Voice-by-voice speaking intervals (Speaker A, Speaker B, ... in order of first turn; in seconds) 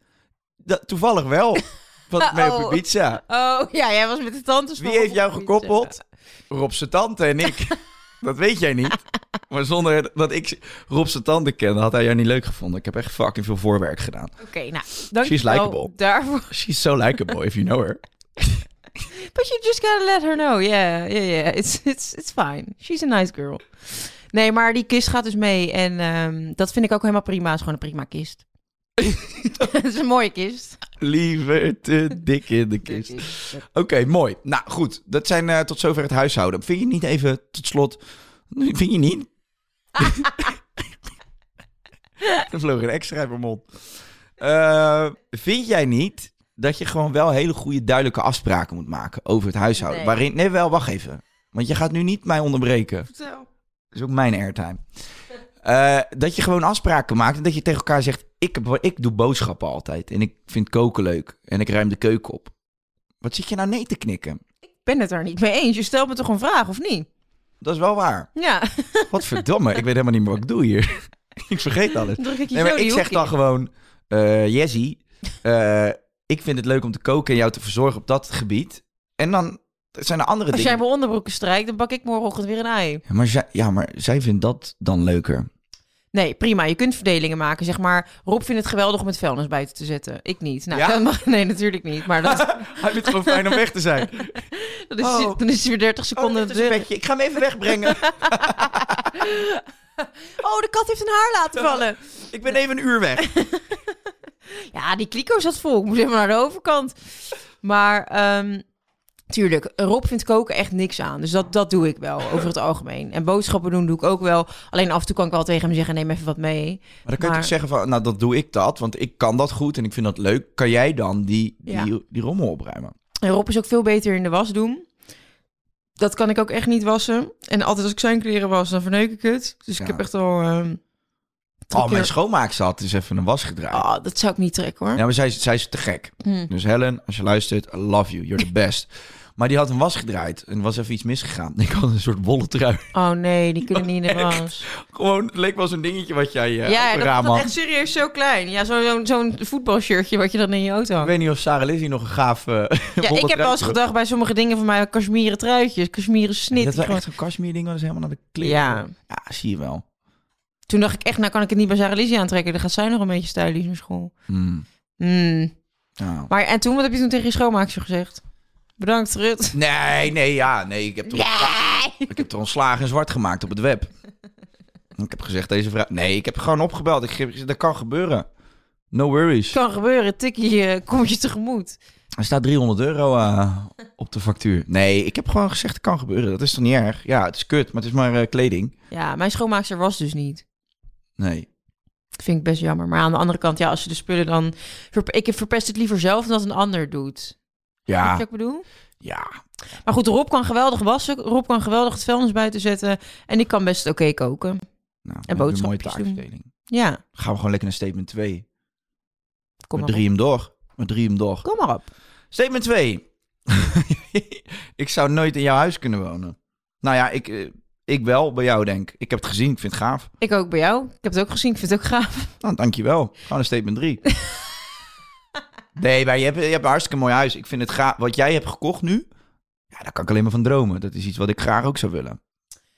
Speaker A: 0.6-3.2, 4.8-6.0, 6.5-9.0, 9.5-14.3, 15.2-15.9, 16.5-18.6, 29.0-29.7, 31.0-39.3, 40.0-40.5, 42.4-43.7, 44.4-53.1, 53.9-54.8, 55.6-62.5, 63.2-64.4, 67.6-68.3, 69.1-80.8, 83.1-85.5, 90.7-91.0, 92.2-94.4, 95.0-95.4, 96.2-99.2, 101.5-103.3, 117.0-122.9, 129.8-130.0, 131.7-133.8, 134.9-142.9, 143.7-147.5, 151.0-153.8, 156.5-159.8, 164.3-164.7, 166.0-166.3, 169.5-173.9, 175.0-178.3, 178.9-179.6, 182.2-188.7, 191.2-191.5, 197.9-198.2, 199.0-199.3, 205.0-206.5, 207.2-208.4, 209.8-211.4, 212.3-220.1, 222.4-224.0, 225.8-229.1, 229.7-232.2
Speaker B: 2.2-6.0, 14.4-16.5, 19.1-28.4, 29.6-30.8, 32.9-33.6, 49.8-50.2, 53.1-53.5, 64.8-67.1, 68.3-69.4, 72.2-73.3, 80.5-83.0, 86.1-93.6, 94.5-96.8, 97.8-102.0, 103.2-103.8, 104.5-107.0, 107.6-108.6, 109.3-117.5, 123.2-124.9, 126.0-130.8, 131.7-132.1, 133.7-135.0, 136.2-136.5, 142.9-144.7, 146.7-151.1, 153.0-157.0, 158.4-158.9, 160.7-164.1, 165.0-165.5, 166.3-168.2, 168.8-169.6, 171.1-172.1, 179.5-181.8, 188.9-190.4, 192.2-197.3, 198.0-198.7, 199.8-204.6, 205.3-207.0, 209.7-210.0, 211.4-211.8, 220.2-222.3